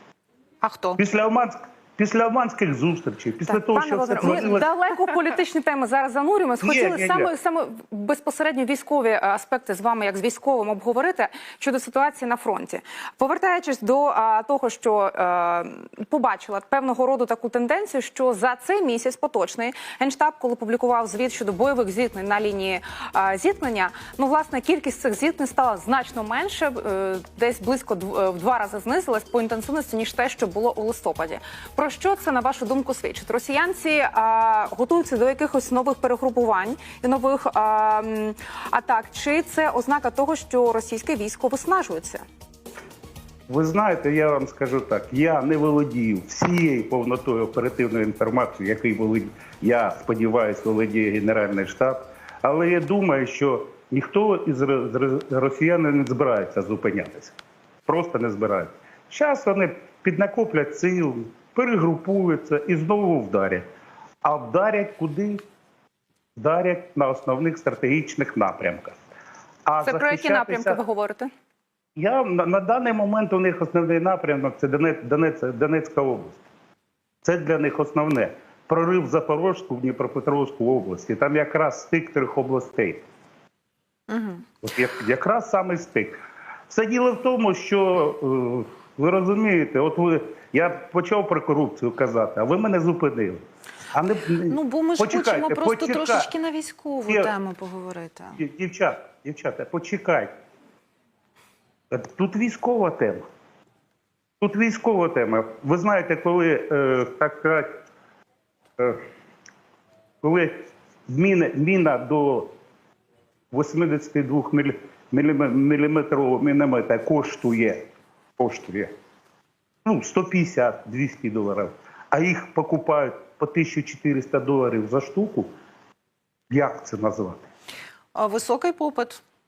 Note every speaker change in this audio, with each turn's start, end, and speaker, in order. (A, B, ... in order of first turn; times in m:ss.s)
0:00.6-0:01.0 A
0:01.0-0:04.7 B
0:03.5-0:42.2 C
0:06.6-0:07.3 B
0:43.5-1:03.6 B
1:04.2-1:05.4 B
1:06.4-1:09.0 B
1:09.6-1:10.8 B
1:09.8-1:11.3 C
1:12.0-1:16.4 B
1:17.2-1:23.0 B
1:24.1-1:24.4 A
1:24.6-1:26.2 B
1:26.7-1:33.4 B
1:33.9-1:36.3 B
1:34.5-1:38.4 A
1:37.1-1:37.3 B
1:38.4-1:40.3 B
1:41.9-1:43.2 B
1:44.4-1:47.7 B
1:50.2-1:52.5 B
1:53.5-1:57.8 B
1:58.4-1:58.9 B
1:59.8-2:05.5 B
2:06.5-2:07.4 B
2:08.1-2:09.2 A